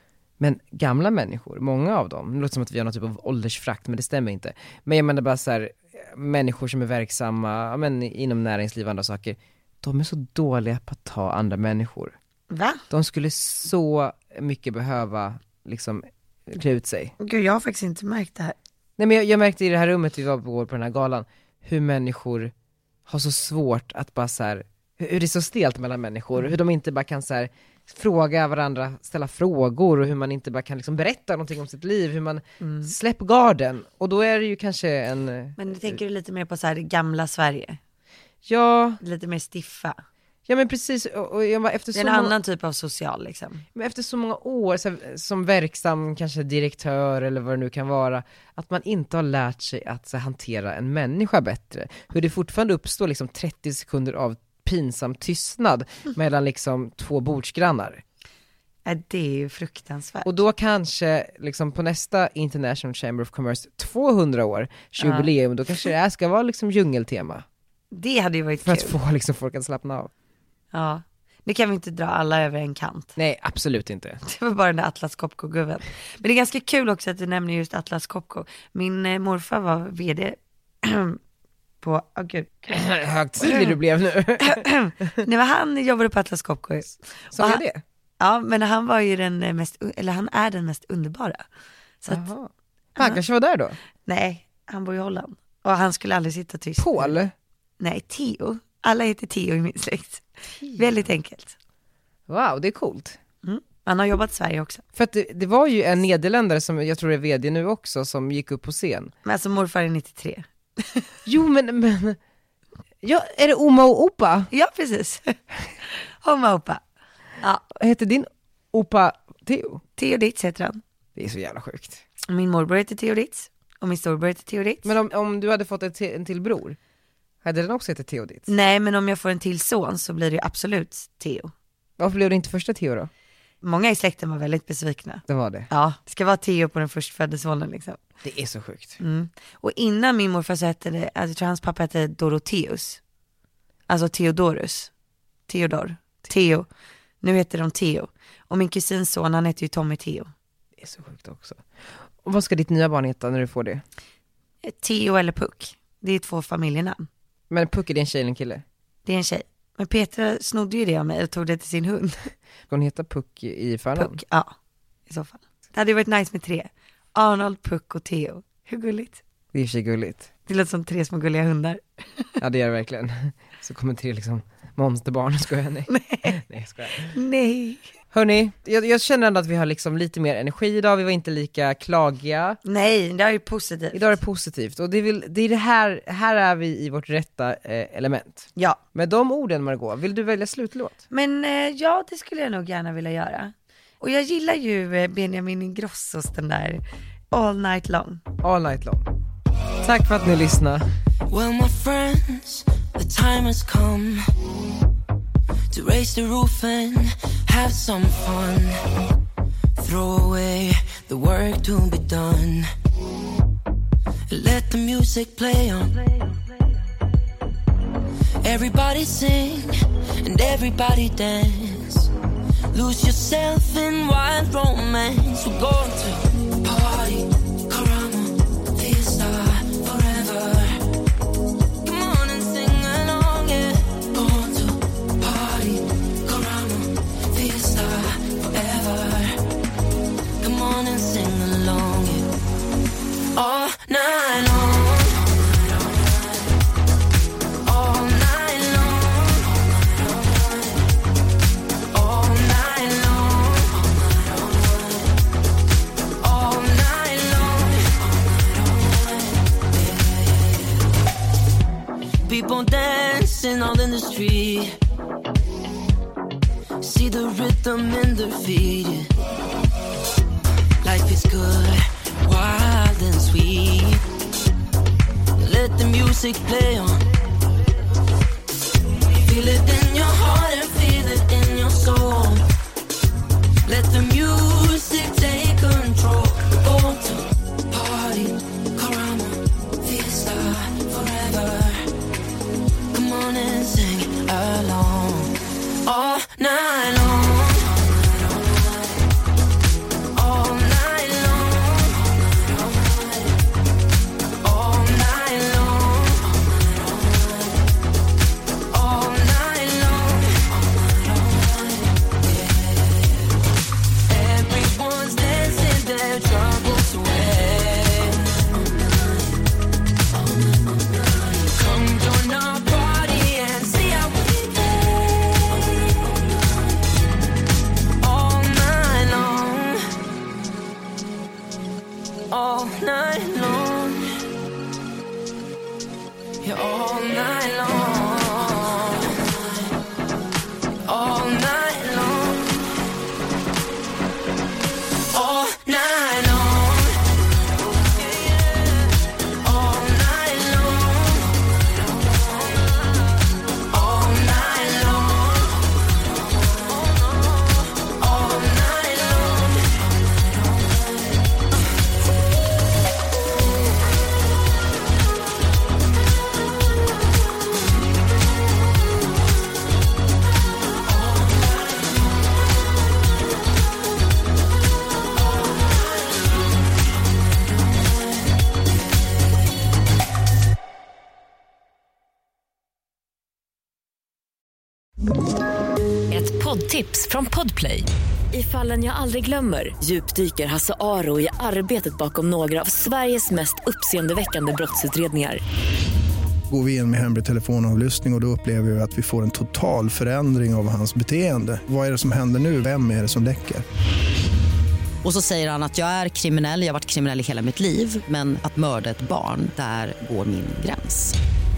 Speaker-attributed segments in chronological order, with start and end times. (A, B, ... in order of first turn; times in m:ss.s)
0:00.4-0:12.1 A
0:12.5-0:12.8 B
0:12.9-0:17.1 A
0:17.2-0:18.6 B
0:19.0-0:22.5 A
0:23.1-0:36.0 A
0:32.6-0:32.9 B
0:35.6-0:37.8 B
0:38.4-0:39.0 A
0:39.0-0:40.0 B
0:40.5-0:42.4 A
0:41.9-0:43.6 B
0:43.7-0:58.0 A
0:58.8-1:00.4 B
1:00.2-1:07.4 A
1:05.0-1:05.3 B
1:07.9-1:09.0 B
1:08.6-1:10.1 A
1:10.7-1:13.2 B
1:13.2-1:14.2 A
1:14.2-1:21.2 B
1:21.8-1:22.9 B
1:22.7-1:25.2 A
1:23.4-1:23.8 B
1:24.4-1:27.6 B
1:27.3-1:27.8 A
1:28.2-1:31.4 B
1:32.0-1:32.3 B
1:32.1-1:33.8 A
1:34.0-1:37.2 B
1:36.8-1:37.3 A
1:37.8-1:41.6 B
1:42.3-1:43.2 A
1:43.4-1:44.8 B
1:44.9-1:49.1 A
1:49.2-1:51.1 B
1:51.2-1:52.2 A
1:53.0-1:54.5 A
1:54.5-1:55.4 B
1:55.9-1:56.8 B
1:57.7-1:59.8 A
2:00.0-2:00.8 B
2:01.2-2:02.0 A
2:02.3-2:04.9 B
2:04.8-2:06.8 A
2:07.4-2:08.5 A
2:08.5-2:11.5 B
2:12.0-2:13.1 A
2:13.6-2:18.0 B
2:15.3-2:15.7 A
2:18.2-2:19.0 A
2:19.0-2:23.0 B
2:23.9-2:24.9 B
2:25.5-2:26.7 B
2:27.2-2:30.3 B
2:30.8-2:31.6 A
2:32.2-2:33.8 A
2:34.6-2:37.1 B
2:37.5-2:38.6 A
2:39.0-2:42.3 B
2:42.7-2:44.2 A
2:44.0-2:44.5 B
2:45.1-2:49.2 B
2:49.5-2:50.3 A
2:50.5-2:52.3 B
2:52.4-2:57.1 A
2:55.9-2:56.4 B
2:57.1-2:57.9 B
2:58.1-3:02.6 A
3:02.6-3:04.2 B
3:03.9-3:11.0 A
3:08.6-3:08.8 B
3:11.1-3:18.2 B
3:18.4-3:19.1 A
3:19.8-3:20.8 A
3:21.3-3:24.2 C
3:25.7-3:28.8 C
3:29.8-3:32.7 C
3:34.3-3:36.2 C
3:38.4-3:42.1 C
3:42.7-3:50.8 C
3:51.8-3:59.4 C
4:00.4-4:02.3 C
4:03.4-4:06.5 C
4:07.6-4:10.9 C
4:11.9-4:15.1 C
4:16.2-4:20.9 C
4:22.2-4:24.8 C
4:26.8-4:29.1 C
4:30.8-4:34.0 C
4:35.4-4:37.0 C
4:39.1-4:42.4 C
4:43.6-4:51.9 C
4:52.9-4:55.3 C
4:55.8-4:59.0 C
5:00.1-5:03.4 C
5:04.4-5:07.6 C
5:08.7-5:13.2 C
5:14.1-5:19.4 C
5:20.3-5:26.4 C
5:28.0-5:29.8 C
5:32.3-5:34.2 C
5:36.4-5:39.7 C
5:40.9-5:42.6 C
5:45.1-5:47.0 C
5:47.9-5:53.0 C
5:53.7-6:00.8 C
6:10.9-6:12.0 C
6:26.1-6:35.4 D
6:36.5-6:43.6 E
6:45.0-6:51.2 F